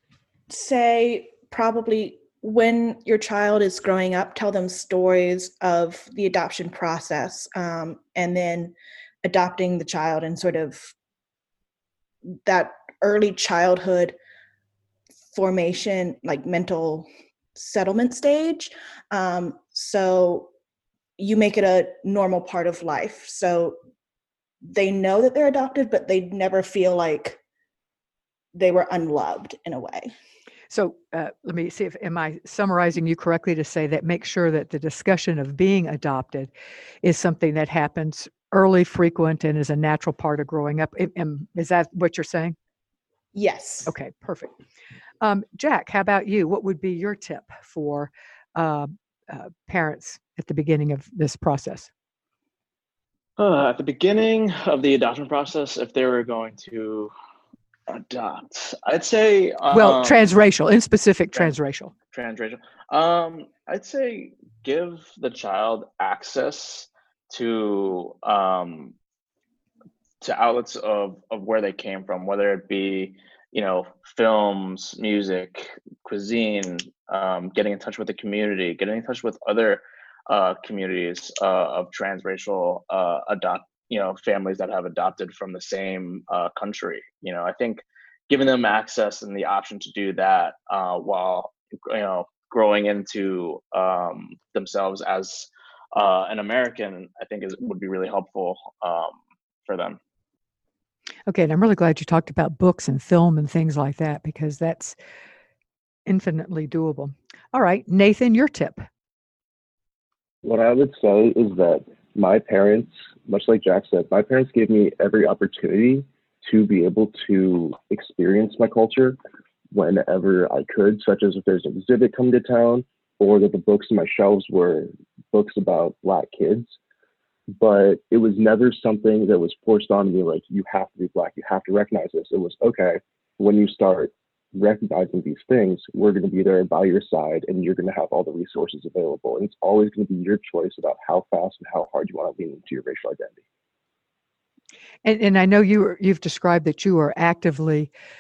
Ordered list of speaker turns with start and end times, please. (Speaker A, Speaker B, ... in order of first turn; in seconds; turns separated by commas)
Speaker A: 0.5-10.9, Speaker A: 12.5-14.2, Speaker A: 15.3-20.5, Speaker A: 21.2-23.8, Speaker A: 24.7-27.4, Speaker A: 28.5-30.1, Speaker B: 30.7-36.5, Speaker B: 37.0-42.6, Speaker A: 43.4-43.9, Speaker B: 43.9-44.5, Speaker B: 45.2-51.9, Speaker C: 53.4-57.1, Speaker C: 57.9-60.2, Speaker B: 59.7-61.9, Speaker C: 62.1-68.9, Speaker C: 70.2-100.0, Speaker B: 101.3-105.0, Speaker B: 106.1-108.8, Speaker D: 110.4-119.2, Speaker D: 119.7-126.8, Speaker D: 127.5-143.4, Speaker B: 145.0-147.9